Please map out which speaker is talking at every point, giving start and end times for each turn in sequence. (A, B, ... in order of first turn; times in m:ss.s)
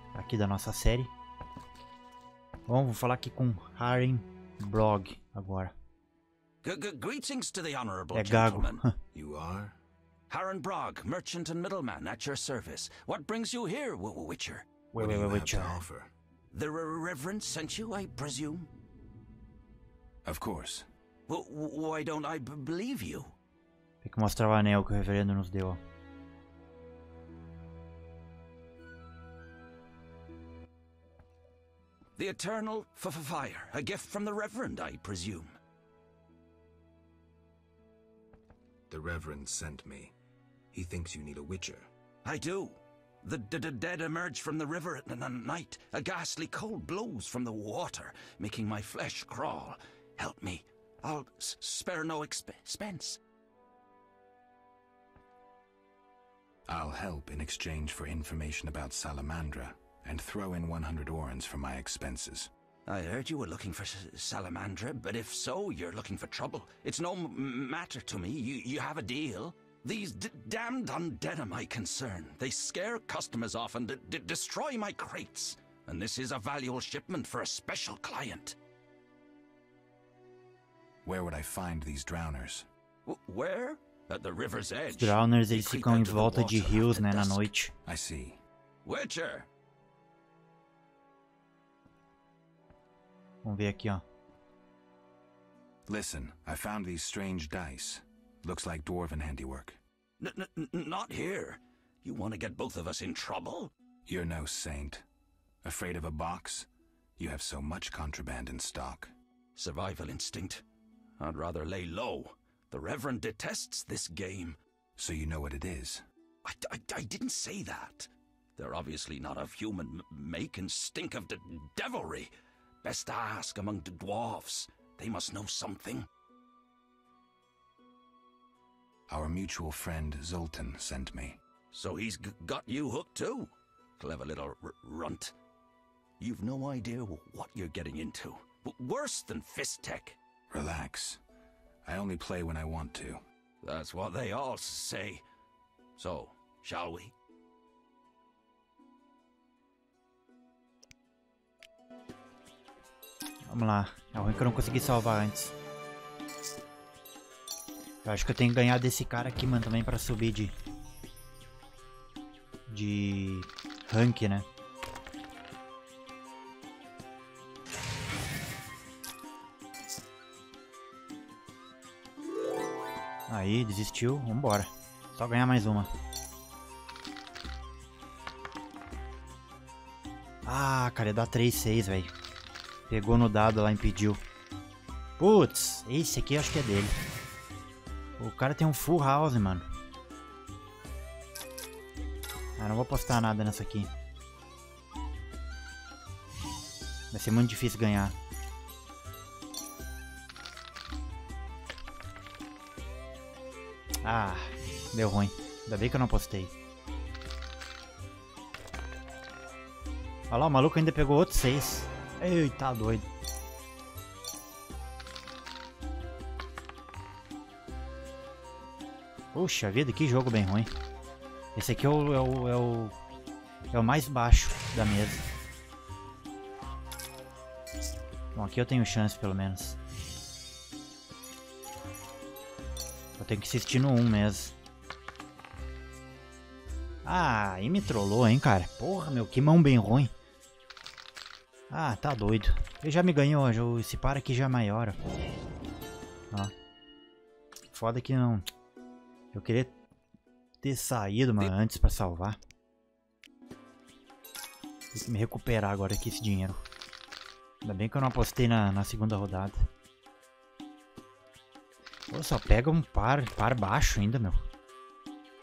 0:00.1-0:01.1 A
0:02.7-0:05.7 A
0:06.6-0:08.8 B
0:08.1-0:08.9 A
0:09.1-0:09.8 C
0:10.3-0:14.6 B
0:14.9-0:15.8 A
0:14.9-0:16.1 C
0:16.5-0:18.7 B
0:20.2-0:20.9 C
0:21.3-0:23.3 B
0:24.0-0:25.8 A
0:32.2-0:35.6 B
0:38.9-0:40.1 C
0:40.7-0:41.9 C
0:42.2-0:53.2 B
0:56.7-1:02.5 C
1:02.9-1:18.6 B
1:21.0-1:22.6 C
1:23.0-1:27.5 B
1:25.0-1:27.7 A
1:27.8-1:28.4 C
1:28.8-1:29.5 B
1:33.4-1:34.0 A
1:35.9-1:39.8 C
1:40.2-1:43.7 B
1:44.0-1:45.0 C
1:45.6-1:46.7 C
1:47.2-1:49.1 C
1:49.6-1:50.6 B
1:51.2-1:54.6 B
1:55.0-1:56.0 C
1:56.4-2:06.1 B
2:09.1-2:11.4 C
2:11.7-2:15.3 B
2:16.2-2:20.2 B
2:20.5-2:21.2 C
2:21.8-2:23.2 C
2:23.6-2:25.2 B
2:26.0-2:27.1 B
2:33.5-2:35.5 A
2:38.0-2:40.5 A
2:42.7-2:44.5 A
2:53.3-2:55.9 A
3:00.4-3:02.1 A
3:02.9-3:04.2 A
3:05.2-3:06.9 A
3:08.2-3:09.6 A
3:12.6-3:13.9 A
3:17.1-3:18.2 A
3:24.0-3:26.5 A
3:30.3-3:33.0 A
3:39.3-3:40.7 A
3:41.5-3:42.9 A
3:43.7-3:45.2 A
3:48.3-3:49.8 A
3:53.2-3:54.5 A
3:57.0-4:00.1 A
4:01.7-4:05.0 A
4:07.7-4:08.4 A
4:09.3-4:09.7 A
4:10.6-4:12.4 A
4:14.9-4:16.6 A
4:17.6-4:19.7 A
4:22.1-4:24.4 A